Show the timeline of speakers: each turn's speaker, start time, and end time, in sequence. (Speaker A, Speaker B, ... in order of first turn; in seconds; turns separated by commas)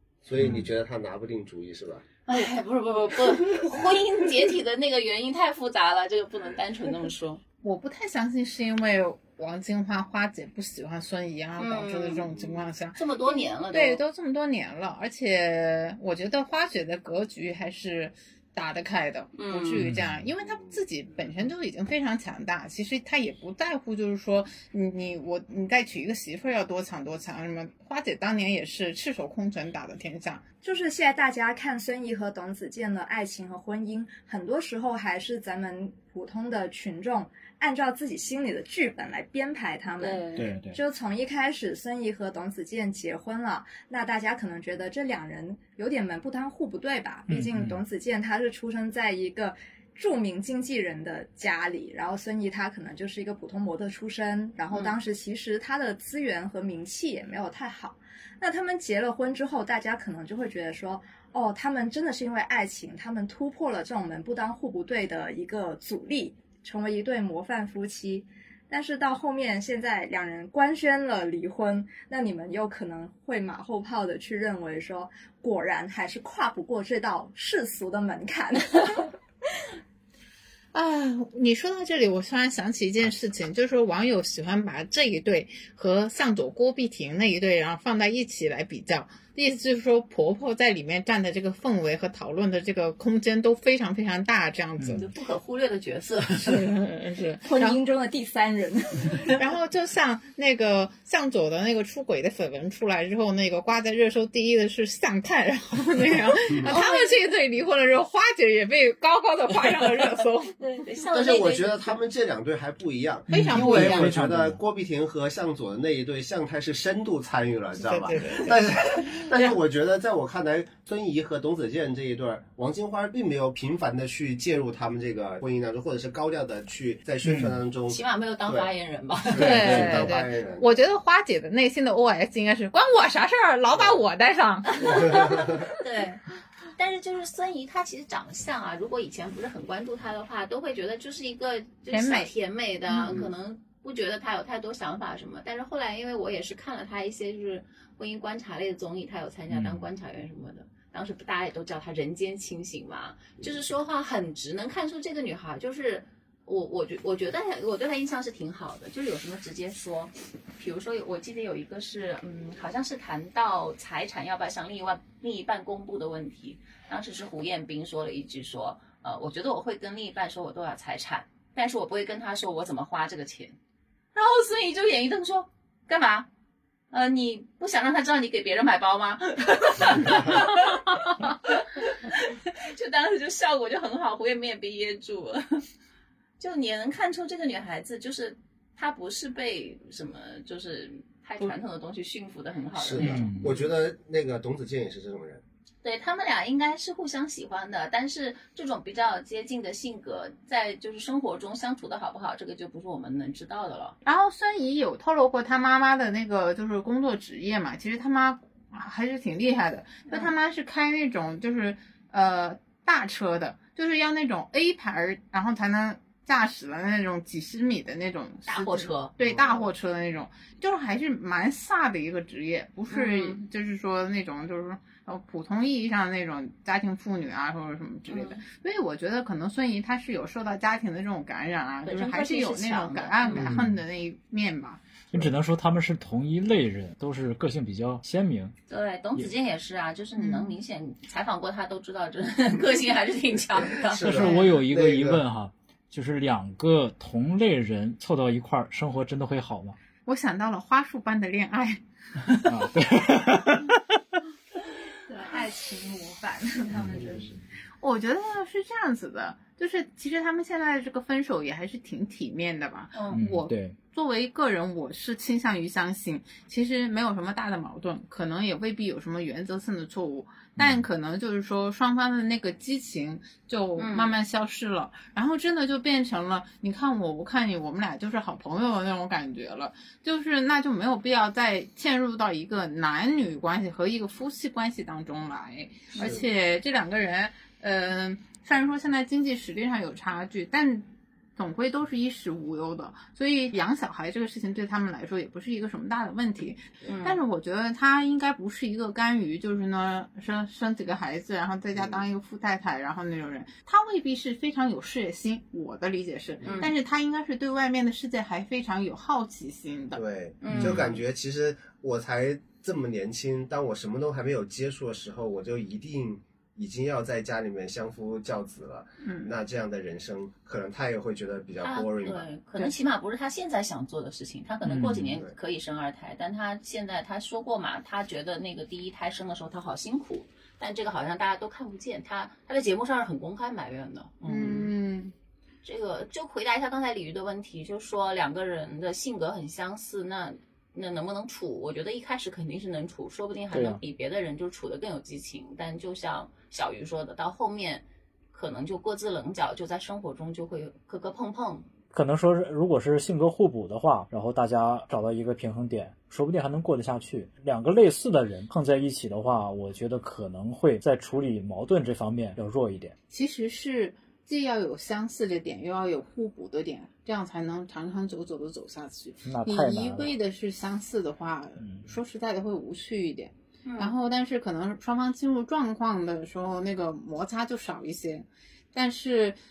Speaker A: 0.2-2.0, Speaker B: 2.2-7.4, Speaker C: 7.6-30.4, Speaker B: 11.6-12.4, Speaker B: 12.9-14.0, Speaker B: 19.3-19.9, Speaker D: 19.8-20.2, Speaker A: 20.4-20.8, Speaker E: 30.6-79.1, Speaker B: 40.0-40.4, Speaker D: 40.3-40.8, Speaker D: 47.3-47.8, Speaker B: 54.7-55.0, Speaker C: 80.7-95.1, Speaker D: 94.8-95.0, Speaker B: 94.9-96.7, Speaker C: 96.4-97.8, Speaker E: 97.4-99.4, Speaker C: 99.3-110.7, Speaker A: 106.5-106.7, Speaker B: 106.7-107.1, Speaker B: 110.6-112.0, Speaker A: 111.1-128.7, Speaker C: 113.3-114.1, Speaker D: 113.3-114.6, Speaker C: 117.8-118.6, Speaker D: 127.2-127.6, Speaker B: 127.9-130.0, Speaker A: 129.2-130.8, Speaker C: 129.4-135.6, Speaker A: 133.7-134.0, Speaker B: 134.7-173.6, Speaker A: 134.9-135.7, Speaker C: 141.9-142.3, Speaker C: 142.9-143.2, Speaker D: 149.5-149.9, Speaker B: 174.1-176.3, Speaker B: 176.9-185.6, Speaker B: 186.4-193.6, Speaker A: 192.7-195.4, Speaker D: 192.9-193.5, Speaker B: 195.8-203.9, Speaker C: 204.0-234.8, Speaker B: 218.5-219.1, Speaker A: 219.2-219.7, Speaker B: 222.9-223.4, Speaker B: 228.1-228.4, Speaker B: 231.8-233.6, Speaker D: 233.3-233.8, Speaker D: 235.1-238.5, Speaker B: 238.7-244.3, Speaker C: 240.2-240.6, Speaker A: 243.8-245.2, Speaker D: 244.0-249.8, Speaker C: 250.1-252.5, Speaker D: 252.5-254.0, Speaker E: 255.1-257.4, Speaker D: 256.8-257.2, Speaker C: 257.8-310.0, Speaker B: 262.9-263.2, Speaker D: 263.1-263.8, Speaker D: 270.6-270.9, Speaker B: 273.8-274.1, Speaker A: 285.9-286.2, Speaker B: 296.9-297.2, Speaker A: 301.7-302.0, Speaker A: 306.4-306.7, Speaker B: 306.4-306.7, Speaker A: 309.9-322.3, Speaker B: 310.4-310.9, Speaker D: 310.5-310.9, Speaker C: 319.0-319.3, Speaker B: 321.6-334.7, Speaker D: 324.6-325.2, Speaker C: 334.2-335.1, Speaker B: 335.6-351.7, Speaker D: 343.5-343.8, Speaker D: 351.9-362.9, Speaker C: 363.1-379.4, Speaker D: 369.2-370.2, Speaker D: 371.6-371.9, Speaker B: 373.6-373.9